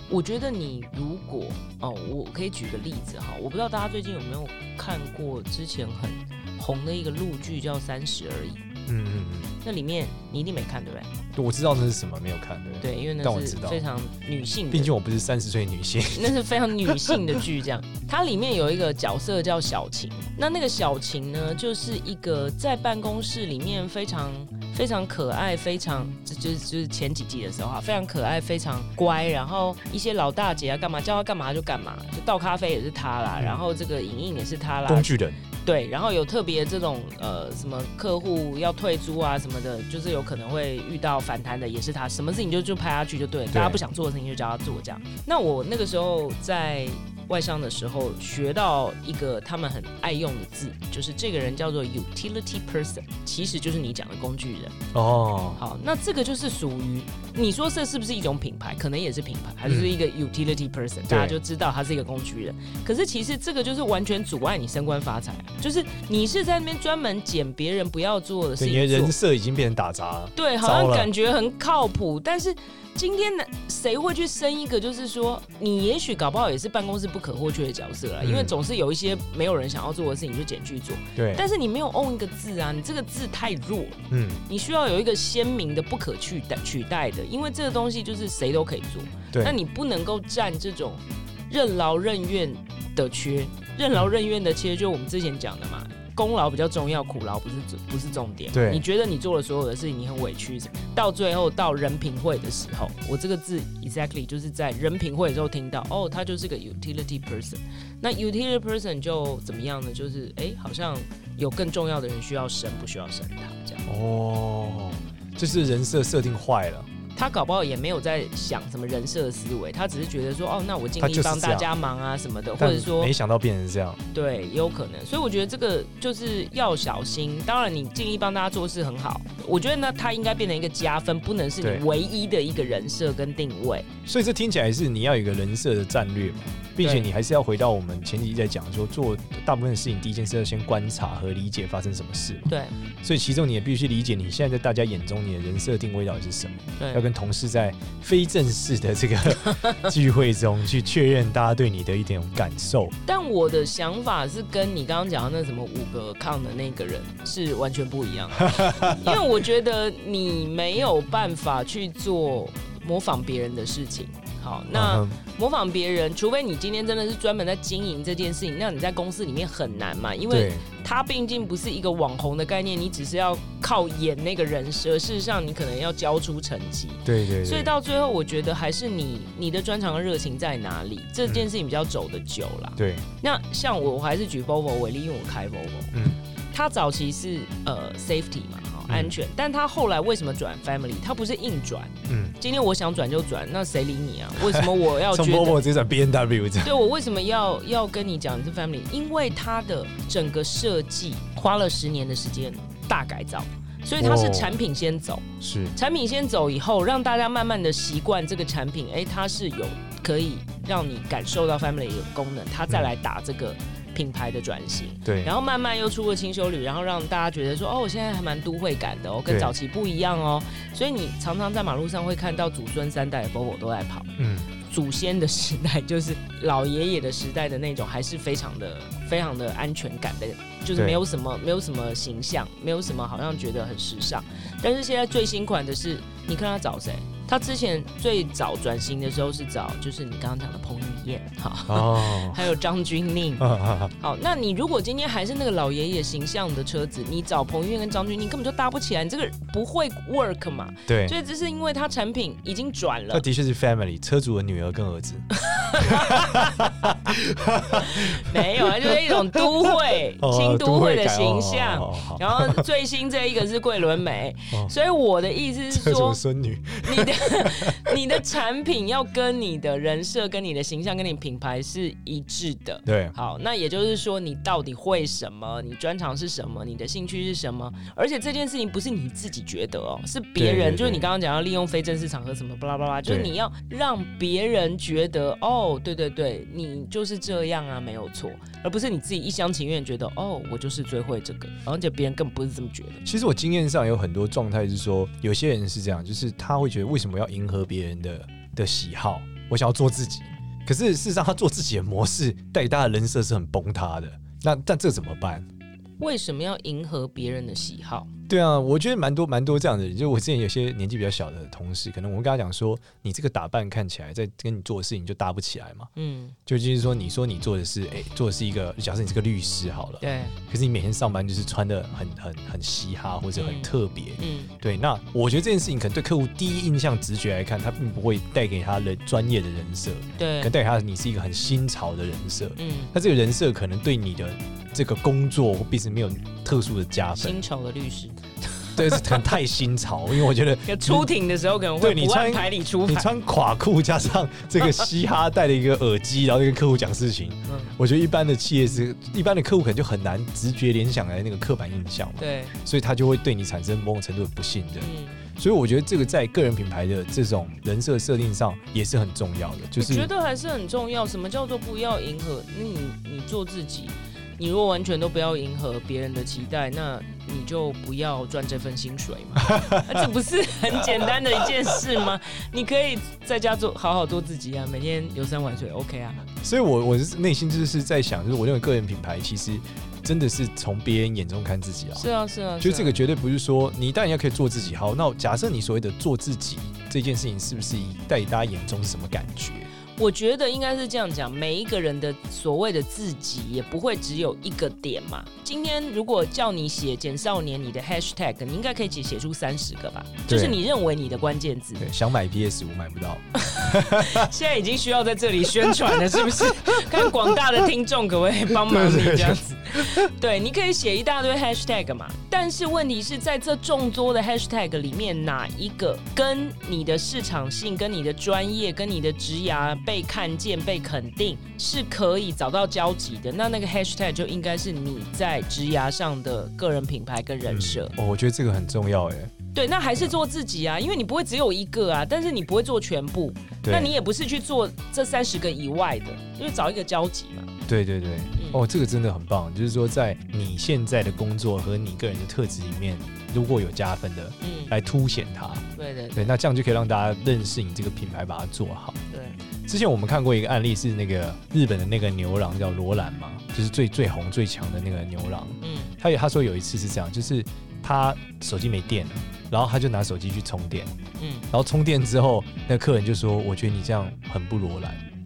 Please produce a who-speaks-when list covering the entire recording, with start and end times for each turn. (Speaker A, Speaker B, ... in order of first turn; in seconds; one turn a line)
Speaker A: 0.1-8.6
Speaker B: 8.9-9.5
Speaker A: 9.6-11.1
Speaker B: 11.3-13.8
Speaker A: 12.8-14.9
Speaker B: 14.7-17.4
Speaker A: 16.1-35.1
Speaker B: 34.9-35.4
Speaker A: 35.6-54.8
Speaker B: 43.5-43.8
Speaker B: 54.9-55.6
Speaker A: 55.6-69.2
Speaker B: 59.6-60.0
Speaker B: 61.1-61.4
Speaker B: 68.6-71.1
Speaker A: 70.4-113.8
Speaker B: 78.2-78.5
Speaker B: 81.2-81.4
Speaker B: 84.1-84.4
Speaker B: 89.3-89.6
Speaker B: 98.5-98.8
Speaker B: 113.9-116.9
Speaker A: 117.1-123.1
Speaker B: 121.0-121.7
Speaker B: 122.6-124.0
Speaker A: 124.1-133.9
Speaker B: 134.1-142.5
Speaker A: 136.8-137.1
Speaker A: 142.5-142.7
Speaker B: 143.0-152.9
Speaker A: 146.8-147.1
Speaker A: 153.1-185.9
Speaker B: 158.4-159.1
Speaker B: 164.7-165.2
Speaker B: 170.3-170.6
Speaker B: 177.1-177.7
Speaker B: 182.8-183.1
Speaker B: 185.9-186.2
Speaker A: 186.5-195.6
Speaker B: 188.9-189.1
Speaker B: 192.1-192.4
Speaker B: 194.4-196.7
Speaker A: 196.6-224.1
Speaker B: 204.0-204.6
Speaker B: 205.4-205.7
Speaker B: 215.1-215.3
Speaker B: 219.3-219.5
Speaker B: 224.2-224.5
Speaker A: 224.6-243.4
Speaker B: 230.7-231.0
Speaker B: 241.7-242.4
Speaker B: 243.4-243.9
Speaker A: 244.0-253.2
Speaker B: 250.9-251.2
Speaker B: 253.1-262.6
Speaker A: 255.3-257.0
Speaker A: 257.7-266.2
Speaker B: 265.7-268.2
Speaker A: 266.8-293.0
Speaker B: 272.9-273.1
Speaker B: 280.4-281.1
Speaker B: 283.1-283.3
Speaker B: 293.0-305.5
Speaker A: 306.0-308.1
Speaker B: 308.3-315.9
Speaker A: 315.9-316.4
Speaker B: 316.4-337.4
Speaker A: 320.0-320.4
Speaker A: 323.4-324.5
Speaker A: 330.2-330.5
Speaker A: 332.6-332.9
Speaker A: 337.1-339.4
Speaker B: 338.7-341.1
Speaker A: 340.6-343.1
Speaker B: 341.8-360.1
Speaker A: 347.5-347.7
Speaker A: 352.2-352.5
Speaker A: 354.8-355.2
Speaker A: 359.8-376.2
Speaker B: 369.4-370.1
Speaker B: 376.4-382.1
Speaker A: 381.9-383.0
Speaker B: 382.6-389.7
Speaker A: 390.0-401.9
Speaker B: 400.3-400.6
Speaker B: 401.8-404.3
Speaker A: 403.4-427.9
Speaker B: 406.7-407.3
Speaker B: 408.6-410.1
Speaker B: 427.5-429.3
Speaker A: 429.5-437.5
Speaker B: 433.6-433.9
Speaker B: 437.7-449.0
Speaker A: 438.4-438.6
Speaker A: 444.4-444.7
Speaker A: 445.7-446.3
Speaker A: 449.1-449.4
Speaker B: 449.7-460.9
Speaker A: 455.6-455.9
Speaker A: 461.2-461.5
Speaker B: 461.5-465.0